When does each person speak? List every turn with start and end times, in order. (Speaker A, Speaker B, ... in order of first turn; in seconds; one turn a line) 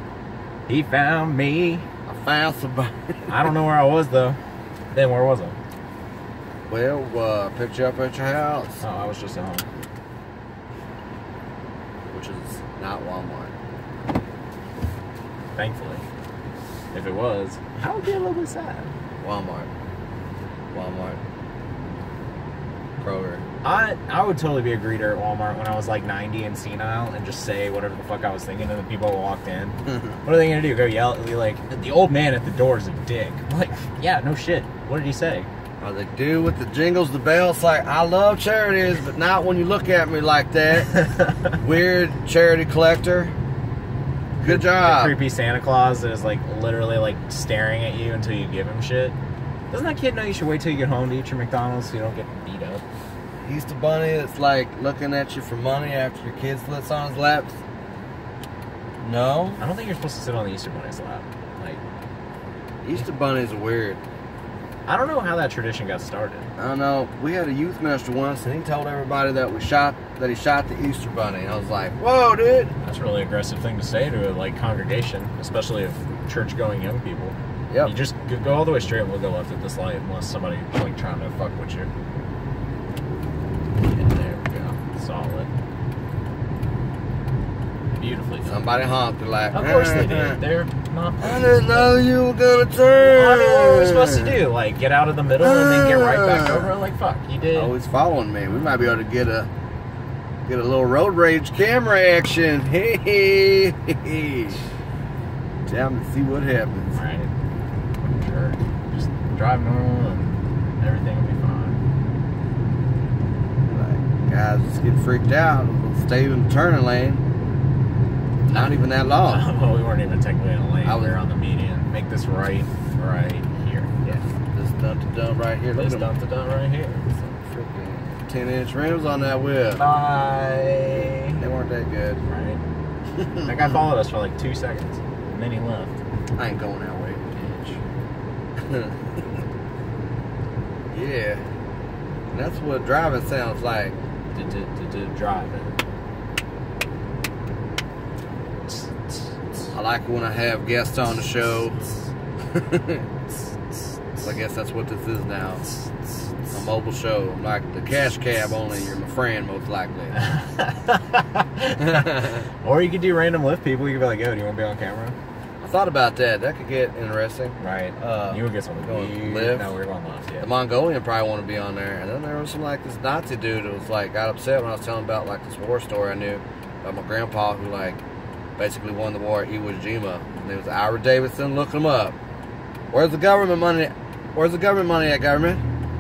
Speaker A: 0.7-1.9
Speaker B: 2.1-3.5
Speaker A: 3.3-4.4
Speaker A: 4.9-5.6
Speaker B: 6.7-8.8
Speaker A: 8.8-9.7
Speaker B: 12.1-13.5
Speaker A: 15.6-16.0
Speaker A: 16.9-18.9
Speaker B: 19.2-19.7
Speaker B: 20.7-21.2
Speaker B: 23.0-23.4
Speaker A: 23.6-35.5
Speaker B: 35.8-40.9
Speaker A: 41.0-41.3
Speaker B: 41.6-43.4
Speaker B: 44.4-45.2
Speaker A: 44.5-49.1
Speaker A: 49.7-52.8
Speaker B: 53.4-57.6
Speaker B: 59.0-59.6
Speaker A: 59.6-61.8
Speaker B: 62.8-64.0
Speaker A: 64.9-66.5
Speaker B: 66.6-72.8
Speaker A: 72.8-81.9
Speaker A: 83.8-85.5
Speaker A: 88.0-88.7
Speaker B: 88.5-90.4
Speaker A: 89.5-92.0
Speaker B: 91.2-94.4
Speaker A: 93.0-97.7
Speaker B: 95.4-96.7
Speaker B: 97.5-99.5
Speaker A: 98.5-99.0
Speaker B: 100.5-104.6
Speaker B: 105.7-107.0
Speaker A: 106.9-107.3
Speaker A: 108.0-111.8
Speaker B: 113.7-117.2
Speaker B: 118.5-119.5
Speaker A: 119.2-124.2
Speaker B: 120.8-121.2
Speaker B: 124.1-126.1
Speaker A: 125.8-127.0
Speaker B: 127.1-129.8
Speaker A: 129.8-131.4
Speaker B: 131.4-132.2
Speaker A: 132.3-132.6
Speaker B: 133.2-133.7
Speaker A: 133.5-135.9
Speaker B: 136.4-137.8
Speaker B: 138.7-139.0
Speaker B: 140.9-141.4
Speaker B: 142.3-144.0
Speaker A: 144.3-145.8
Speaker A: 148.7-149.2
Speaker B: 149.7-151.8
Speaker B: 152.5-153.1
Speaker B: 154.2-155.7
Speaker B: 156.5-160.2
Speaker A: 160.2-165.2
Speaker B: 161.8-162.4
Speaker B: 165.6-169.7
Speaker A: 167.6-170.5
Speaker B: 170.4-178.0
Speaker B: 178.6-182.2
Speaker B: 182.9-185.6